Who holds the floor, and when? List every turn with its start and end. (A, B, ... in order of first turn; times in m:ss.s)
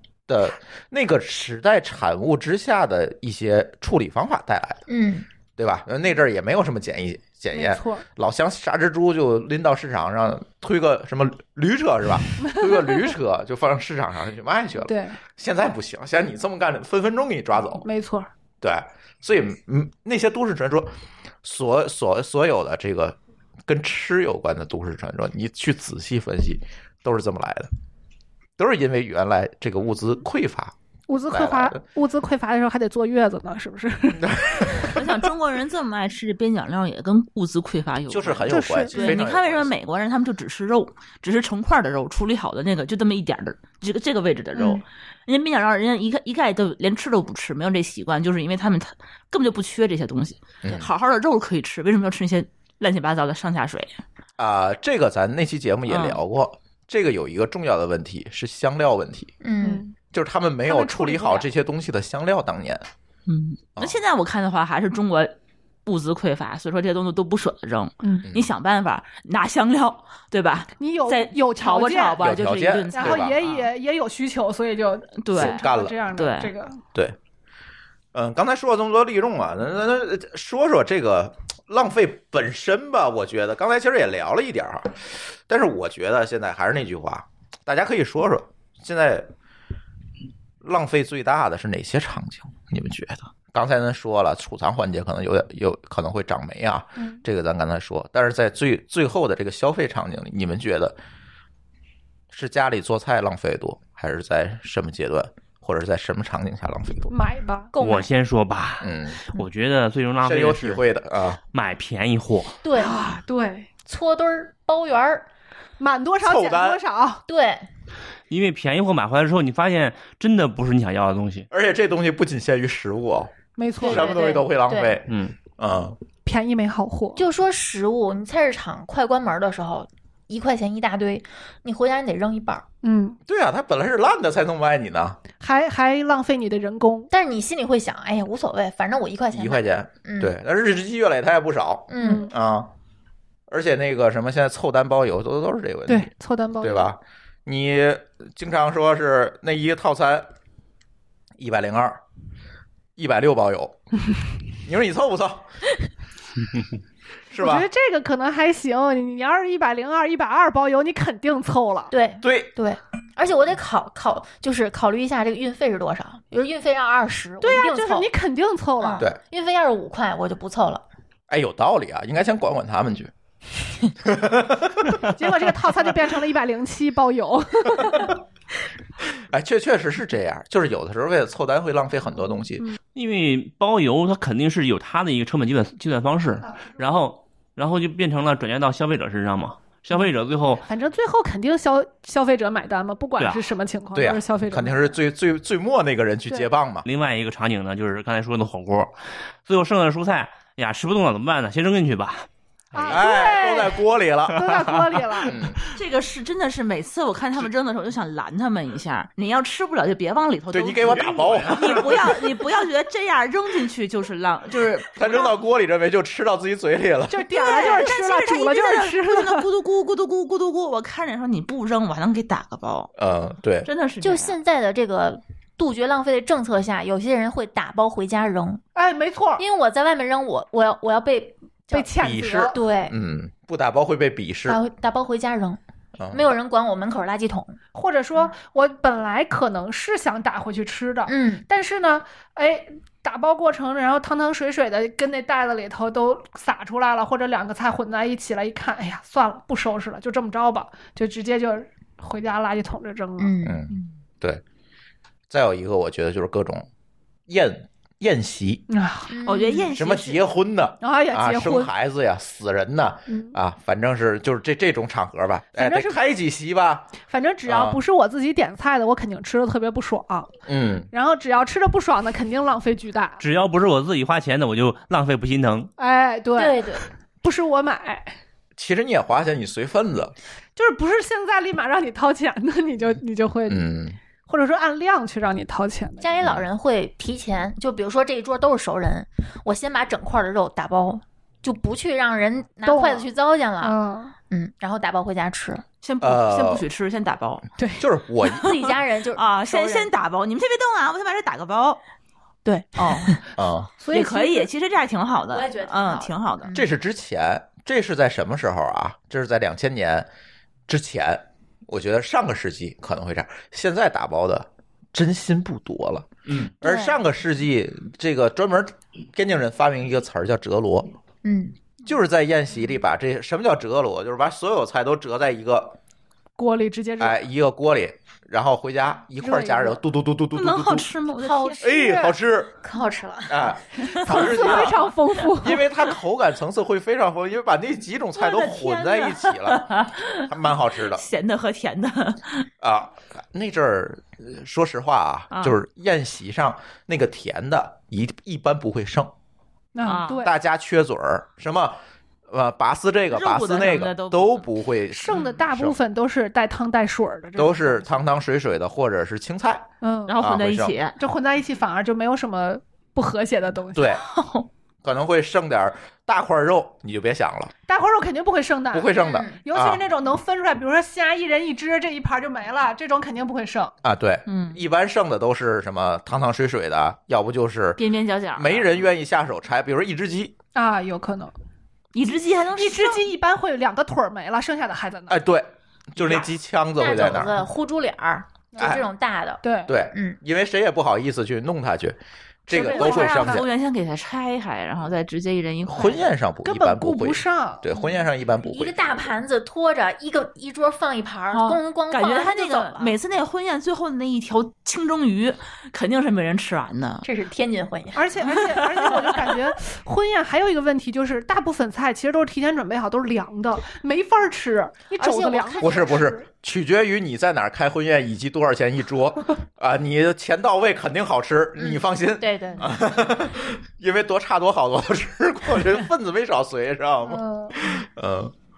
0:00.3-0:04.8 A
0:04.9-0:05.2 B
0:05.6-0:17.8 A
0:07.5-0:08.0 C
0:14.9-0:15.2 C
0:17.8-0:18.3 C
0:18.6-0:27.7 A
0:28.6-0:30.7 A
0:31.1-0:34.8 C
0:31.3-0:31.8 A
0:34.2-0:35.0 A
0:34.8-0:54.0 D
0:38.1-0:39.7 A
0:38.5-0:39.2 C
0:44.6-0:44.8 B
0:50.6-0:50.9 A
0:54.4-0:59.3 A
0:55.9-0:56.2 D
0:59.4-0:59.8 B
0:59.6-0:59.9 C
1:00.1-1:02.8 A
1:00.6-1:01.5 C
1:03.2-1:05.3 D
1:05.8-1:13.7 D
1:10.8-1:12.2 C
1:12.2-1:13.4 A
1:12.9-1:16.8 C
1:15.2-1:16.5 D
1:15.3-1:16.0 A
1:18.1-1:29.3 A
1:30.6-1:41.0 A
1:42.3-1:47.1 A
1:47.1-1:47.7 C
1:47.7-1:48.1 B
1:47.8-1:50.8 E
1:48.8-1:49.2 A
1:50.2-1:51.4 A
1:51.5-1:52.6 E
1:52.6-1:53.0 B
1:52.8-1:53.7 C
1:53.8-1:55.3 B
1:55.8-1:57.2 C
1:56.2-1:56.8 A
1:57.3-1:57.7 B
1:58.3-2:01.5 E
2:01.5-2:06.0 A
2:03.6-2:04.2 C
2:03.8-2:05.0 B
2:05.1-2:05.3 E
2:06.2-2:07.2 C
2:07.2-2:12.6 B
2:12.8-2:13.2 C
2:13.3-2:15.2 A
2:15.4-2:17.1 C
2:17.1-2:20.3 B
2:19.3-2:22.7 A
2:21.9-2:22.3 B
2:22.0-2:22.3 C
2:23.5-2:26.1 A
2:25.9-2:26.9 C
2:26.6-2:30.3 A
2:31.4-2:32.0 A
2:33.0-2:33.8 A
2:34.6-2:35.4 A
2:37.3-2:37.7 A
2:37.4-2:41.9 C
2:41.9-2:48.1 B
2:42.2-2:42.5 A
2:47.4-2:49.0 C
2:48.8-2:50.8 B
2:51.3-2:53.1 A
2:54.0-2:55.0 A
2:55.1-2:58.1 C
2:59.3-3:02.6 A
3:02.9-3:10.6 E
3:10.6-3:14.9 C
3:13.2-3:13.5 E
3:13.9-3:16.9 A
3:16.8-3:18.9 E
3:19.4-3:22.9 E
3:22.7-3:25.4 C
3:22.7-3:25.7 A
3:25.7-3:35.4 D
3:30.5-3:32.1 A
3:30.9-3:32.0 E
3:34.6-3:37.3 A
3:37.1-3:39.5 C
3:37.3-3:42.9 D
3:43.0-3:43.7 A
3:43.6-3:44.4 D
3:44.0-3:48.6 B
3:48.7-3:49.4 C
3:49.4-3:51.9 B
3:51.7-3:52.6 C
3:52.0-3:54.6 A
3:52.5-3:52.9 B
3:54.4-3:55.6 B
3:56.0-3:56.3 A
3:56.1-3:57.6 B
3:57.7-4:13.4 C
4:01.1-4:01.4 B
4:13.2-4:13.6 B
4:13.4-4:14.4 A
4:15.3-4:16.7 A
4:17.3-4:18.6 A
4:18.7-4:19.2 C
4:19.1-4:19.7 B
4:19.2-4:20.2 D
4:19.7-4:26.9 A
4:20.8-4:21.7 C
4:23.1-4:23.4 C
4:25.5-4:26.0 C
4:27.1-4:30.3 C
4:27.4-4:27.8 A
4:30.5-4:30.9 A
4:30.9-4:33.2 C
4:33.2-4:35.7 E
4:35.8-4:38.1 C
4:36.4-4:36.9 B
4:38.6-4:40.1 A
4:40.6-4:43.6 C
4:43.5-4:44.0 A
4:44.3-4:46.2 C
4:46.0-4:53.8 B
4:52.6-4:53.1 C
4:53.6-4:54.1 C
4:54.3-4:55.6 B
4:55.8-4:57.4 D
4:56.0-4:56.7 A
4:57.6-4:57.9 C
4:57.8-4:58.5 A
4:58.3-4:59.9 B
4:58.4-5:01.8 D
5:02.4-5:03.2 D
5:03.4-5:03.7 A
5:03.8-5:04.5 C
5:03.9-5:06.5 D
5:05.3-5:06.6 B
5:06.5-5:10.1 A
5:10.7-5:20.9 A
5:16.6-5:17.0 B
5:21.2-5:21.6 B
5:21.8-5:25.8 A
5:26.4-5:27.2 C
5:27.0-5:30.9 A
5:29.2-5:29.8 C
5:30.3-5:31.6 D
5:31.2-5:32.1 B
5:31.6-5:32.5 A
5:32.6-5:33.6 B
5:33.3-5:41.0 A
5:33.9-5:35.6 C
5:38.2-5:40.3 D
5:40.9-5:42.5 D
5:42.6-5:49.1 A
5:45.3-5:45.6 D
5:49.7-5:50.3 C
5:49.8-5:50.2 D
5:50.1-5:55.8 A
5:53.1-5:54.5 D
5:54.9-5:58.0 C
5:57.4-5:59.6 A
5:59.8-6:00.2 C
6:00.1-6:01.0 D
6:00.2-6:00.8 A
6:01.0-6:03.9 C
6:03.7-6:04.0 A
6:04.0-6:04.5 D
6:04.8-6:07.5 A
6:07.7-6:13.7 C
6:08.7-6:09.8 A
6:09.0-6:09.4 B
6:13.8-6:17.8 A
6:14.3-6:14.6 D
6:17.8-6:18.8 D
6:18.3-6:20.3 A
6:20.5-6:21.3 C
6:21.9-6:23.0 D
6:22.6-6:25.2 C
6:25.1-6:27.4 A
6:26.8-6:30.2 B
6:28.5-6:28.8 C
6:29.4-6:29.7 C
6:29.7-6:33.5 A
6:32.5-6:33.4 B
6:32.6-6:33.4 C
6:32.6-6:36.1 D
6:35.7-6:38.8 A
6:36.4-6:37.7 C
6:38.5-6:43.0 B
6:41.3-6:47.0 D
6:47.0-6:48.1 B
6:47.9-6:56.2 C
6:48.2-6:49.4 D
6:55.0-6:56.0 B
6:55.6-7:08.3 A
7:01.6-7:02.7 B
7:07.1-7:07.6 C